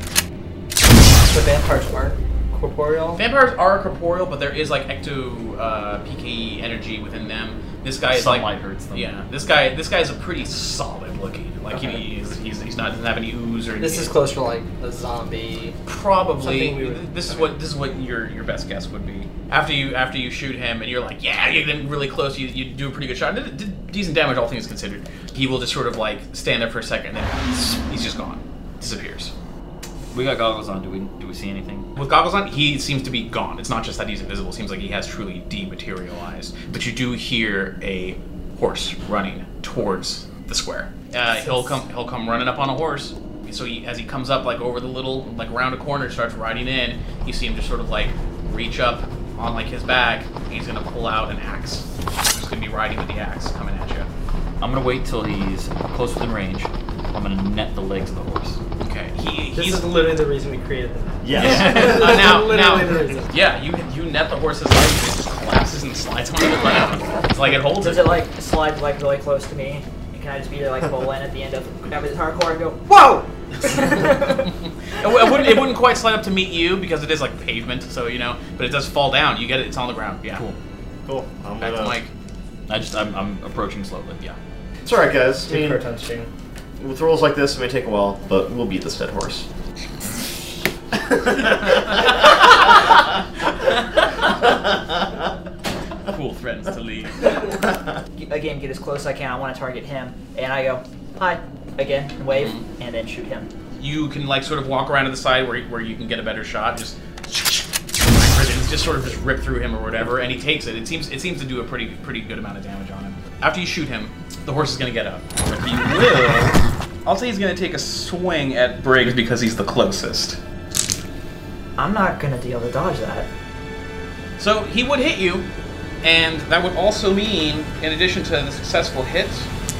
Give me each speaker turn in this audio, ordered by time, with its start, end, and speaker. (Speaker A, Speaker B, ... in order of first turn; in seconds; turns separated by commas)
Speaker A: 1.3-3.2, Speaker B: 3.1-14.1, Speaker C: 8.1-9.1, Speaker A: 11.7-12.1, Speaker A: 13.8-15.8, Speaker B: 15.8-29.3, Speaker A: 16.4-17.5, Speaker C: 30.1-31.9, Speaker B: 31.9-54.1, Speaker C: 54.6-58.6, Speaker B: 58.8-59.9, Speaker A: 59.5-63.3, Speaker D: 61.2-62.0, Speaker B: 61.3-68.2, Speaker C: 61.4-62.2, Speaker E: 67.8-73.2, Speaker A: 72.9-73.2, Speaker B: 74.9-80.4, Speaker D: 81.0-82.0, Speaker B: 81.6-82.1, Speaker C: 82.7-84.2, Speaker D: 84.8-85.8, Speaker A: 85.5-86.3, Speaker D: 86.8-89.5, Speaker B: 96.1-97.5, Speaker E: 98.2-103.5, Speaker B: 102.3-102.6, Speaker B: 103.8-120.4, Speaker E: 121.8-123.3, Speaker B: 124.4-125.5, Speaker B: 126.0-129.5